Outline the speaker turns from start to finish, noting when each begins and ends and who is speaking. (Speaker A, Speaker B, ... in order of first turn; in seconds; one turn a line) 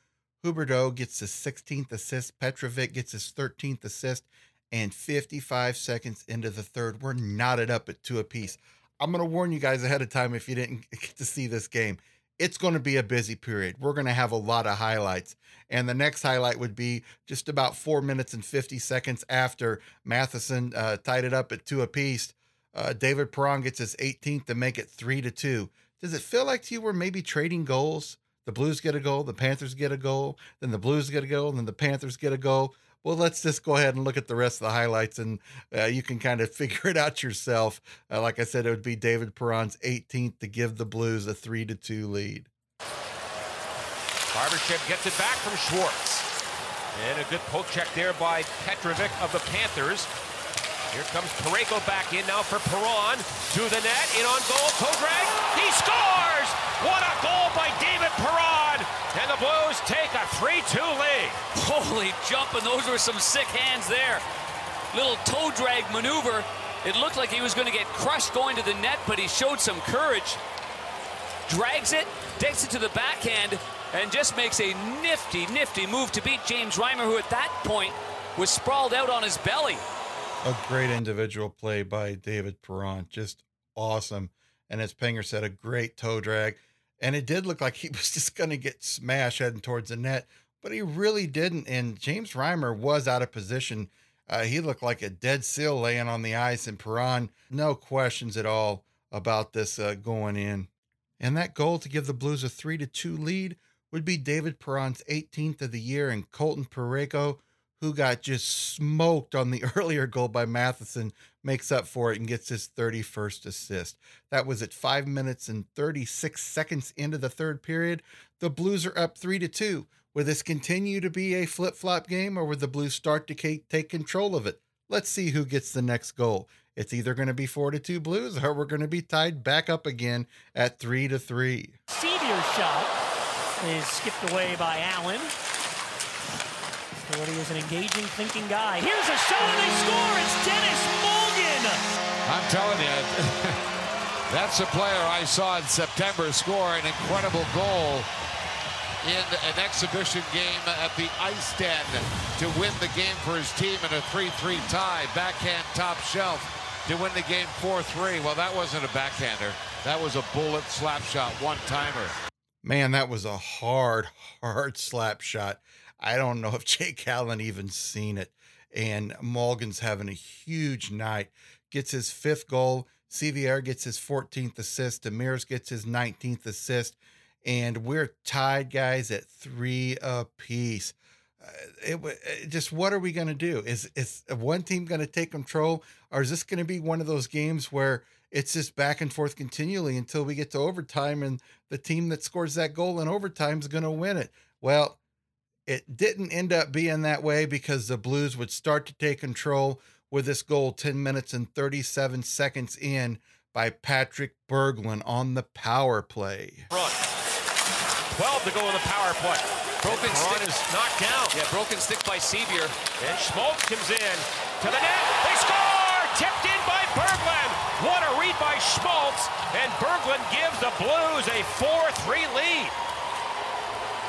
Speaker A: 0.4-42.5
Speaker B: 44.3-46.2
Speaker B: 46.9-50.1
Speaker B: 50.9-61.4
Speaker C: 61.5-64.2
Speaker C: 64.9-70.4
Speaker C: 71.5-79.8
Speaker A: 80.4-100.7
Speaker A: 101.2-131.8
Speaker D: 131.9-132.9
Speaker D: 133.6-135.3
Speaker D: 137.0-141.8
Speaker E: 142.2-143.6
Speaker E: 144.3-148.1
Speaker E: 149.0-162.1
Speaker A: 162.6-195.0
Speaker A: 195.7-206.7
Speaker B: 206.7-207.0
Speaker B: 208.1-211.3
Speaker C: 209.8-210.4
Speaker C: 211.3-212.7
Speaker B: 213.0-222.7